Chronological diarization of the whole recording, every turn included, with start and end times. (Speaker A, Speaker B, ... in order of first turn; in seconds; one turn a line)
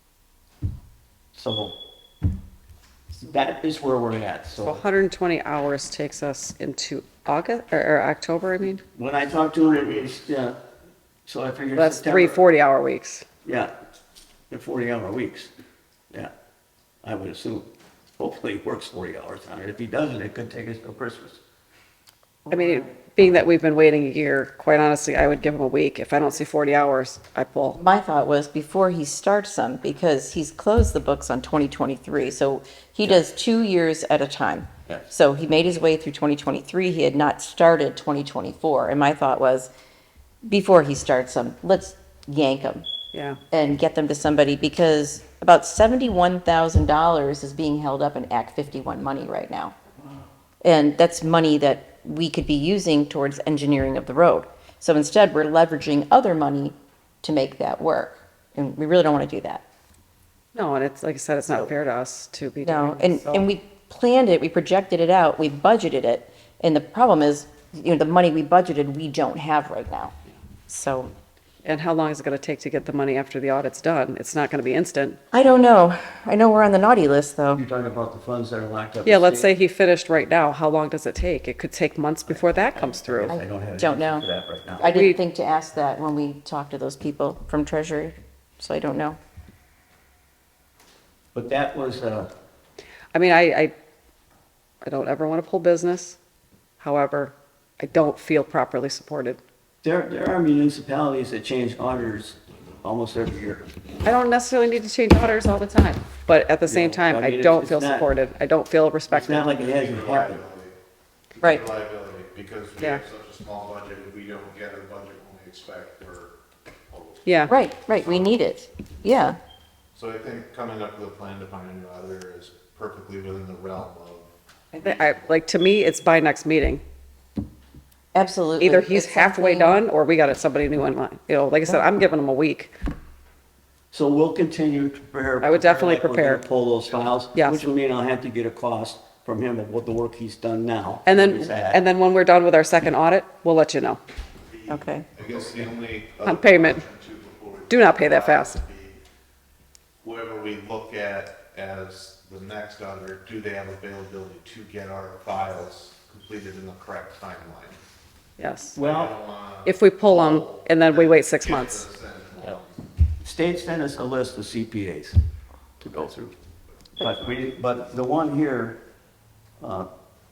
Speaker A: 1.3-1.8
Speaker A: 3.2-4.8
Speaker B: 4.6-8.8
Speaker A: 8.9-10.6
Speaker A: 11.2-12.4
Speaker B: 11.7-13.2
Speaker A: 13.4-13.7
Speaker A: 14.5-15.5
Speaker A: 17.0-21.4
Speaker C: 22.4-22.9
Speaker B: 22.5-27.8
Speaker C: 27.7-39.7
Speaker C: 40.4-42.9
Speaker B: 43.1-43.4
Speaker C: 43.5-49.7
Speaker C: 50.6-59.6
Speaker B: 60.5-63.5
Speaker C: 62.6-70.1
Speaker C: 70.7-71.1
Speaker B: 71.6-75.2
Speaker C: 75.3-77.6
Speaker A: 77.5-79.5
Speaker B: 79.0-83.3
Speaker A: 82.3-84.9
Speaker C: 83.3-84.3
Speaker C: 84.8-89.2
Speaker B: 84.8-85.2
Speaker A: 91.3-92.3
Speaker B: 93.1-93.7
Speaker B: 94.8-96.2
Speaker B: 96.8-99.4
Speaker A: 99.8-103.7
Speaker B: 104.0-109.5
Speaker A: 106.6-108.1
Speaker A: 109.1-110.4
Speaker D: 109.6-110.7
Speaker D: 111.3-116.4
Speaker D: 116.9-118.3
Speaker B: 117.2-117.5
Speaker C: 117.5-119.4
Speaker D: 119.9-125.2
Speaker B: 124.7-126.8
Speaker C: 128.1-129.8
Speaker B: 128.6-132.7
Speaker A: 133.9-141.8
Speaker B: 135.4-136.4
Speaker B: 137.3-137.6
Speaker B: 141.1-144.0
Speaker D: 144.5-149.0
Speaker C: 144.7-145.1
Speaker B: 146.2-146.8
Speaker B: 147.7-148.6
Speaker D: 150.0-157.8
Speaker B: 158.4-158.8
Speaker A: 158.7-159.1
Speaker D: 158.8-162.8
Speaker B: 159.6-161.9
Speaker A: 163.2-165.2
Speaker A: 165.8-166.3
Speaker A: 167.0-168.8
Speaker A: 169.6-169.9